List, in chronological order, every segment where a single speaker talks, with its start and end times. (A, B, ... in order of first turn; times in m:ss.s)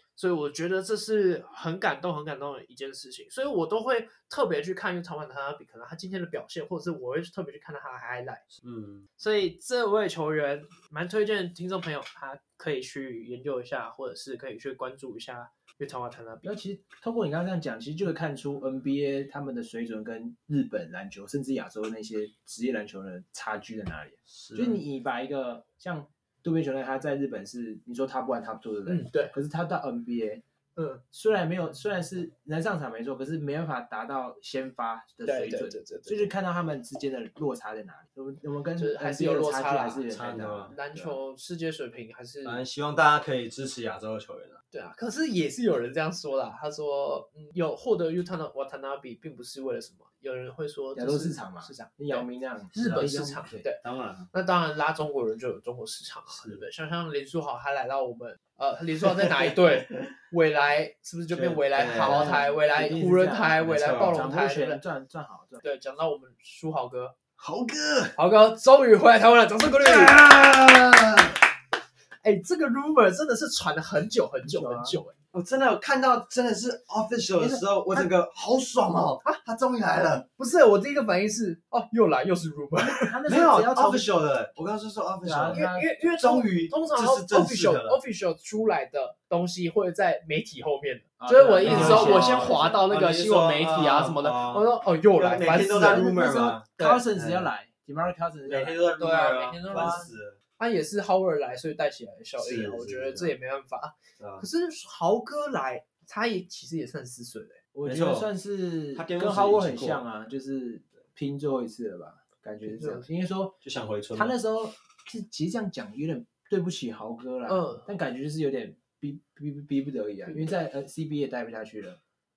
0:00.2-0:08.4 A
0:08.6-0:09.1 B
0:09.2-0:16.5 A
0:16.4-0:30.4 C
0:24.3-0:24.8 B
0:28.9-0:29.3 A
0:30.8-0:31.0 A
0:31.1-0:41.2 C
0:35.2-0:36.3 A
0:38.8-0:40.1 A
0:40.1-0:40.8 B
0:40.7-0:42.6 A
0:42.4-0:44.6 B
0:44.7-1:04.8 A
0:50.9-0:53.6 C
0:52.8-0:54.3 B
0:56.3-0:56.6 B
0:59.4-1:00.1 B
1:01.3-1:02.4 B
1:02.0-1:05.6 C
1:03.6-1:04.3 B
1:05.6-1:07.1 A
1:07.4-1:08.1 B
1:08.1-1:10.2 A
1:09.8-1:11.3 B
1:12.2-1:15.2 A
1:14.4-1:15.0 C
1:15.3-1:20.2 B
1:17.4-1:18.0 C
1:20.4-1:23.2 A
1:22.8-1:24.1 C
1:23.3-1:28.0 B
1:25.2-1:25.8 C
1:25.5-1:36.1 A
1:31.2-1:32.8 C
1:31.6-1:37.5 B
1:35.7-1:38.9 C
1:36.8-1:37.0 A
1:38.4-1:40.4 B
1:39.0-1:47.6 A
1:39.7-1:40.0 C
1:42.4-1:43.3 B
1:44.2-1:44.4 B
1:47.7-1:53.6 C
1:47.8-1:48.3 B
1:48.9-1:50.0 B
1:52.6-1:53.1 A
1:53.6-1:54.3 B
1:54.1-2:02.0 C
1:57.5-1:57.9 A